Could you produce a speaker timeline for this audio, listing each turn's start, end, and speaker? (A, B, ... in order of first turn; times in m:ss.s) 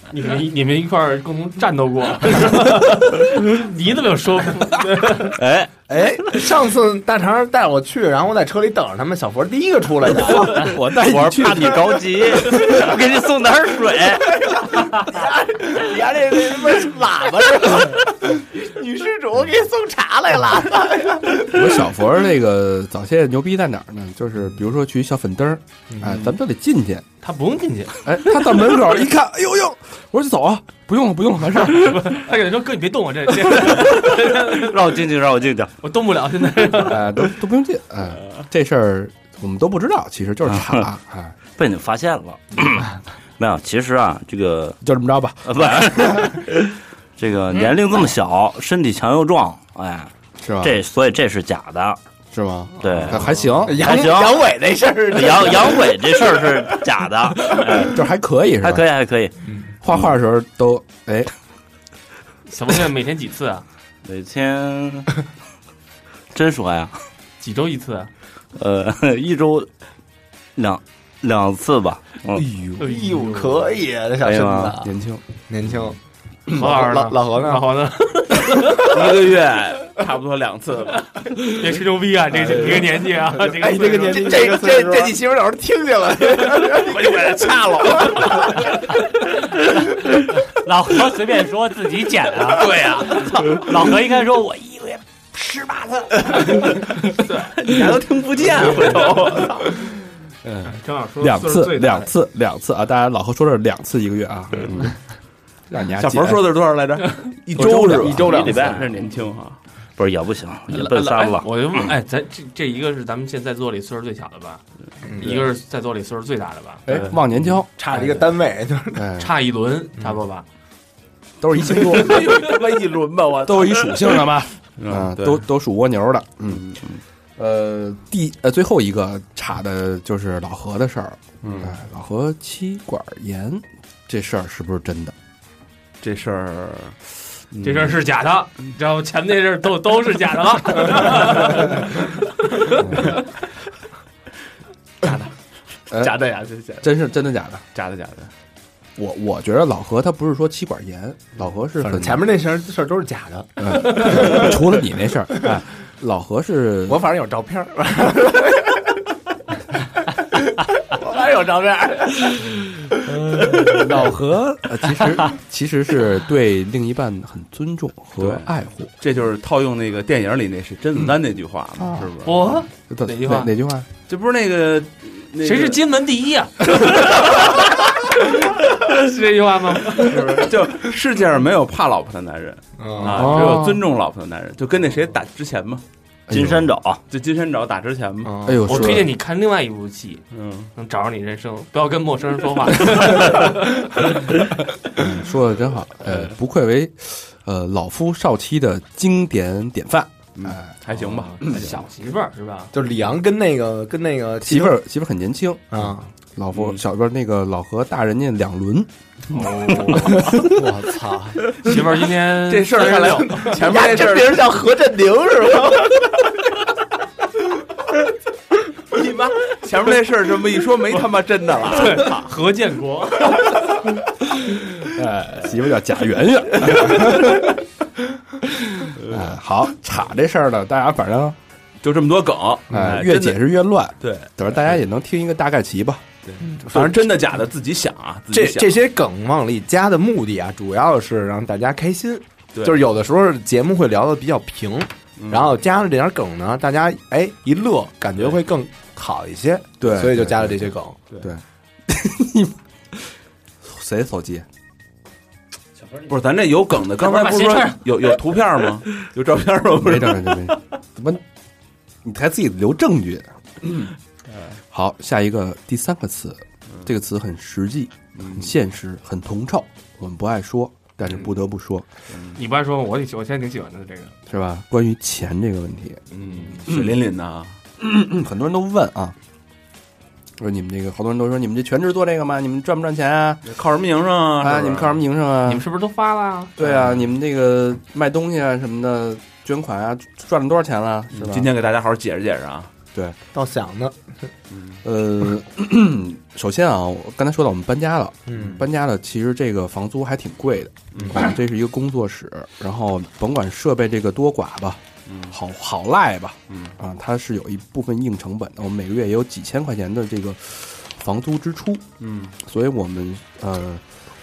0:00.1-0:05.4 A
0:05.3-0:05.8 B
0:05.9-0:12.0 C
0:10.3-0:12.0 D
0:10.9-0:14.6 B
0:14.3-0:21.8 C
0:21.4-0:27.1 D
0:25.9-0:26.2 C
0:27.2-0:28.2 A
0:28.0-0:32.2 D
0:31.7-0:35.0 A
0:33.9-0:35.7 B
0:35.8-0:37.2 A
0:36.8-0:41.4 D
0:40.5-0:40.9 B
0:41.6-0:44.8 B
0:44.8-0:46.5 D
0:45.4-0:52.0 B
0:50.4-0:50.8 D
0:52.3-0:54.0 D
0:52.8-0:54.5 B
0:53.0-0:53.6 A
0:53.6-0:56.6 C
0:55.1-0:58.0 B
0:57.8-0:58.8 D
0:58.6-0:59.3 B
0:59.4-0:59.7 C
0:59.8-1:01.3 D
1:02.5-1:03.6 A
1:04.0-1:05.2 B
1:06.3-1:07.0 B
1:07.4-1:08.1 A
1:08.6-1:09.7 B
1:10.6-1:12.5 B
1:12.4-1:14.9 C
1:12.8-1:13.8 A
1:14.2-1:14.8 B
1:14.8-1:15.2 D
1:15.5-1:16.0 C
1:16.5-1:19.0 A
1:16.6-1:17.6 C
1:18.8-1:21.1 E
1:21.4-1:24.6 A
1:22.4-1:22.8 D
1:23.6-1:28.7 C
1:24.2-1:25.1 D
1:26.6-1:28.8 A
1:30.4-1:36.5 F
1:32.6-1:33.6 A
1:36.5-1:37.8 A
1:37.5-1:39.9 E
1:38.6-1:39.5 A
1:40.4-1:45.0 D
1:40.6-1:42.1 A
1:44.6-1:44.8 A
1:45.7-1:46.4 D
1:46.0-1:49.6 E
1:47.6-1:48.5 D
1:47.6-1:48.9 C
1:47.6-1:49.1 B
1:50.0-1:51.8 B
1:50.7-1:54.6 A
1:55.1-1:55.4 C
1:55.2-1:57.0 A
1:56.9-1:58.3 D
1:56.9-1:57.6 E
1:57.8-1:59.1 C
1:58.9-1:59.3 D
1:59.2-2:00.5 A
2:01.4-2:02.4 D
2:01.7-2:05.4 E
2:03.4-2:06.8 D
2:06.5-2:06.9 E
2:07.4-2:15.2 D
2:11.4-2:11.8 E
2:16.0-2:17.0 E
2:17.5-2:18.0 E
2:17.6-2:23.2 A
2:22.8-2:23.1 D
2:25.9-2:26.2 D
2:26.0-2:26.8 E
2:26.3-2:26.8 A
2:26.8-2:27.6 D
2:27.8-2:28.3 E
2:29.0-2:32.3 D
2:31.8-2:34.6 C
2:33.6-2:37.1 D
2:36.9-2:39.0 C
2:40.3-2:42.6 C
2:43.0-2:48.9 D
2:43.4-2:43.9 C
2:48.2-2:52.4 E
2:52.2-2:53.5 A
2:52.9-2:53.9 D
2:54.1-2:55.8 E
2:55.4-3:00.4 A
2:59.9-3:05.8 E
3:02.8-3:03.6 C
3:03.2-3:03.5 A
3:06.3-3:06.7 D
3:06.3-3:07.0 B
3:07.1-3:08.4 E
3:08.2-3:08.9 C
3:08.4-3:09.1 D
3:08.7-3:10.2 A
3:10.3-3:10.7 E
3:10.8-3:14.1 A
3:15.0-3:20.7 D
3:20.4-3:21.8 E
3:20.9-3:22.7 A
3:22.7-3:24.8 C
3:24.4-3:28.9 D
3:25.7-3:26.1 C
3:26.5-3:26.8 E
3:29.3-3:30.5 A
3:30.0-3:30.6 D
3:30.5-3:31.5 C
3:31.5-3:33.6 A
3:32.4-3:34.6 E
3:32.8-3:36.1 C
3:39.0-3:42.3 E
3:41.6-3:43.8 A
3:44.8-3:47.6 D
3:48.5-3:51.4 D
3:49.0-3:49.3 E
3:51.8-3:53.4 E
3:52.7-3:56.1 D
3:54.0-3:54.8 E
3:56.2-3:58.8 E
3:56.5-3:57.1 C
3:58.3-4:11.0 C
4:02.5-4:02.9 E
4:05.2-4:05.6 E
4:09.8-4:14.5 D
4:16.0-4:20.6 E
4:17.0-4:17.8 F
4:19.8-4:21.2 D
4:22.0-4:23.8 D
4:23.6-4:23.9 E
4:24.7-4:31.9 D
4:28.2-4:28.5 E
4:32.1-4:32.4 E
4:32.4-4:34.2 A
4:34.3-4:36.0 D
4:36.1-4:36.6 A
4:36.2-4:37.6 E
4:36.7-4:37.0 D
4:37.8-4:39.2 D
4:40.4-4:43.5 D
4:43.5-4:45.0 E
4:44.4-4:45.7 D
4:45.4-4:46.6 A
4:46.6-4:51.5 D
4:46.7-4:47.0 E
4:51.1-4:52.7 E
4:53.3-4:54.0 C
4:54.5-4:54.8 E
4:54.8-5:11.8 D
4:58.3-4:58.6 C
5:00.9-5:01.2 E
5:05.1-5:05.4 E
5:06.5-5:06.8 E
5:12.0-5:12.4 E
5:12.4-5:13.8 D